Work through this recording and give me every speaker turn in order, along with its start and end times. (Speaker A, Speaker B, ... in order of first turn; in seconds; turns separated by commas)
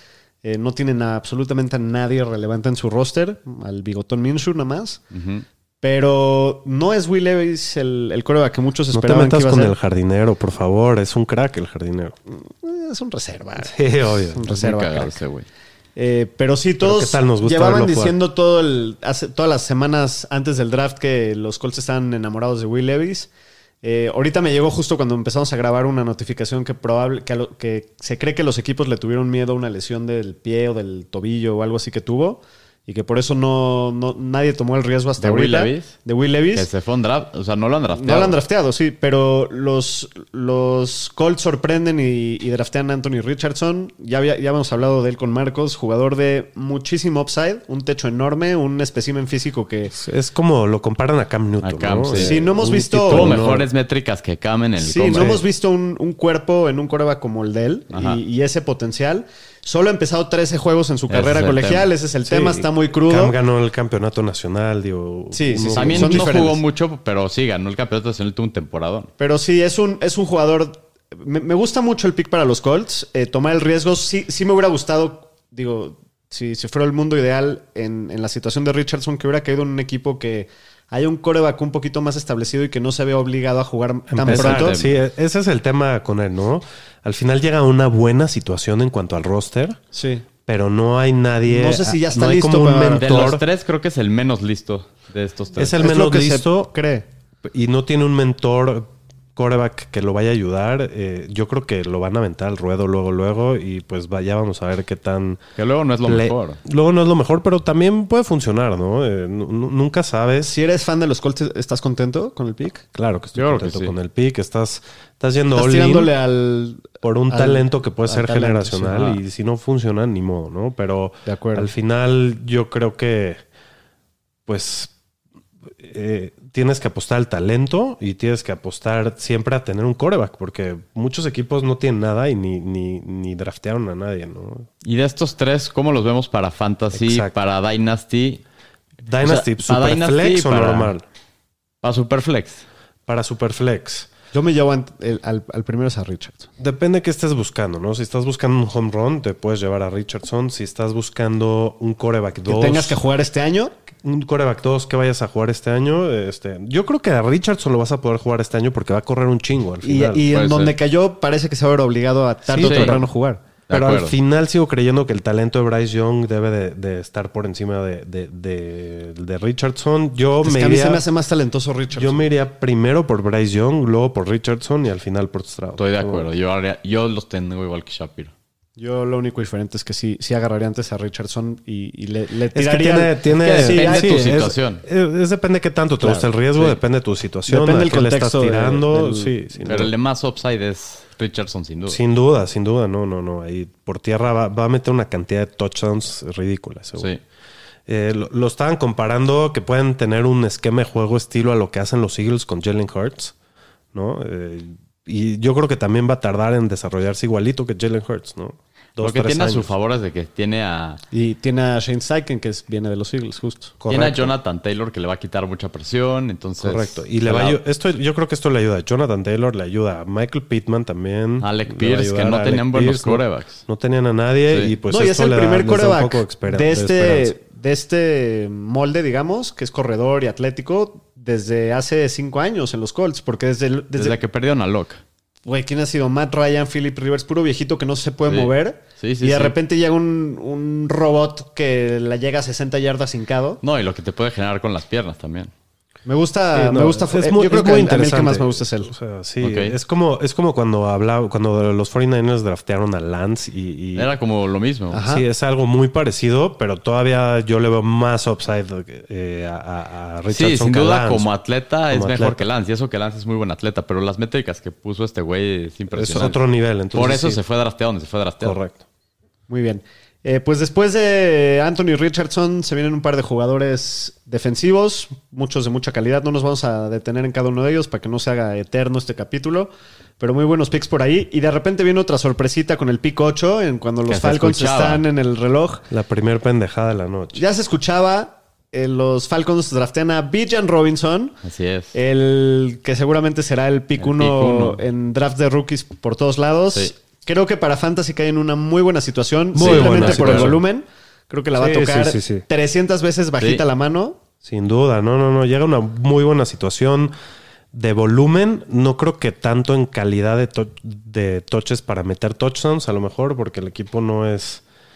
Speaker A: 0.4-5.0, Speaker B: 5.1-5.4, Speaker A: 5.8-9.7, Speaker C: 8.9-12.2, Speaker A: 12.3-15.2, Speaker C: 13.6-14.4, Speaker B: 14.5-15.5, Speaker A: 15.9-23.3, Speaker C: 16.8-18.1, Speaker A: 23.8-36.7, Speaker B: 35.2-35.9, Speaker B: 36.5-38.4, Speaker A: 37.9-49.9, Speaker C: 49.9-53.7, Speaker B: 51.6-52.4, Speaker A: 52.1-53.4, Speaker B: 53.1-55.4, Speaker A: 54.8-63.3, Speaker C: 55.1-55.4, Speaker B: 57.9-58.2, Speaker B: 61.1-61.9, Speaker C: 62.2-66.5, Speaker A: 65.3-66.6, Speaker B: 65.7-69.1, Speaker A: 69.2-84.8, Speaker C: 84.1-89.8, Speaker B: 84.3-85.0, Speaker A: 89.9-90.2, Speaker C: 90.4-93.4, Speaker A: 91.5-93.3, Speaker B: 93.0-95.8, Speaker C: 95.6-96.7, Speaker A: 95.8-97.0, Speaker C: 97.4-105.4, Speaker B: 105.6-106.6, Speaker C: 106.0-110.5, Speaker A: 110.4-112.8, Speaker C: 112.9-116.1, Speaker B: 113.3-113.9, Speaker A: 115.5-119.2, Speaker C: 117.0-123.4, Speaker A: 121.2-121.7, Speaker C: 124.5-124.9, Speaker C: 125.8-134.7, Speaker B: 134.8-138.4, Speaker C: 136.9-137.3, Speaker C: 139.1-141.0, Speaker B: 139.2-140.9, Speaker B: 141.8-142.6, Speaker C: 143.1-144.1, Speaker A: 144.3-146.5, Speaker C: 146.6-153.0, Speaker A: 152.4-153.7, Speaker C: 154.0-160.2, Speaker A: 159.8-163.4, Speaker B: 160.3-160.7, Speaker C: 162.5-163.1, Speaker B: 162.6-163.0, Speaker B: 163.7-164.1, Speaker C: 163.7-171.0, Speaker A: 170.4-172.2, Speaker C: 171.9-176.3, Speaker B: 175.8-178.3, Speaker A: 178.8-184.3, Speaker C: 182.5-189.9, Speaker B: 183.3-184.8, Speaker A: 186.0-186.3, Speaker A: 187.5-189.3, Speaker B: 189.6-192.0, Speaker C: 191.9-197.1, Speaker C: 197.9-203.3, Speaker C: 203.9-209.7, Speaker B: 209.0-211.0, Speaker A: 211.1-213.7, Speaker C: 213.8-214.3, Speaker B: 213.9-217.6, Speaker C: 216.6-227.3, Speaker B: 221.4-223.6, Speaker B: 224.5-224.7, Speaker A: 224.9-234.2, Speaker B: 233.9-235.0, Speaker A: 235.4-243.6, Speaker B: 238.2-239.5, Speaker B: 243.6-245.5, Speaker A: 246.1-248.9, Speaker C: 246.5-254.1, Speaker B: 249.4-249.7, Speaker B: 253.9-255.0, Speaker A: 254.9-255.2, Speaker C: 255.0-261.3, Speaker B: 260.3-266.4, Speaker C: 261.9-262.4, Speaker C: 265.9-267.4, Speaker B: 266.9-268.6, Speaker C: 268.4-268.8, Speaker A: 269.5-285.8, Speaker B: 284.1-285.0, Speaker C: 285.9-287.4, Speaker A: 287.3-291.4, Speaker B: 291.4-291.9, Speaker A: 291.9-304.2, Speaker B: 294.0-294.8, Speaker C: 299.5-300.6, Speaker B: 299.6-300.6, Speaker C: 301.6-302.4, Speaker C: 304.4-307.1, Speaker C: 307.7-314.6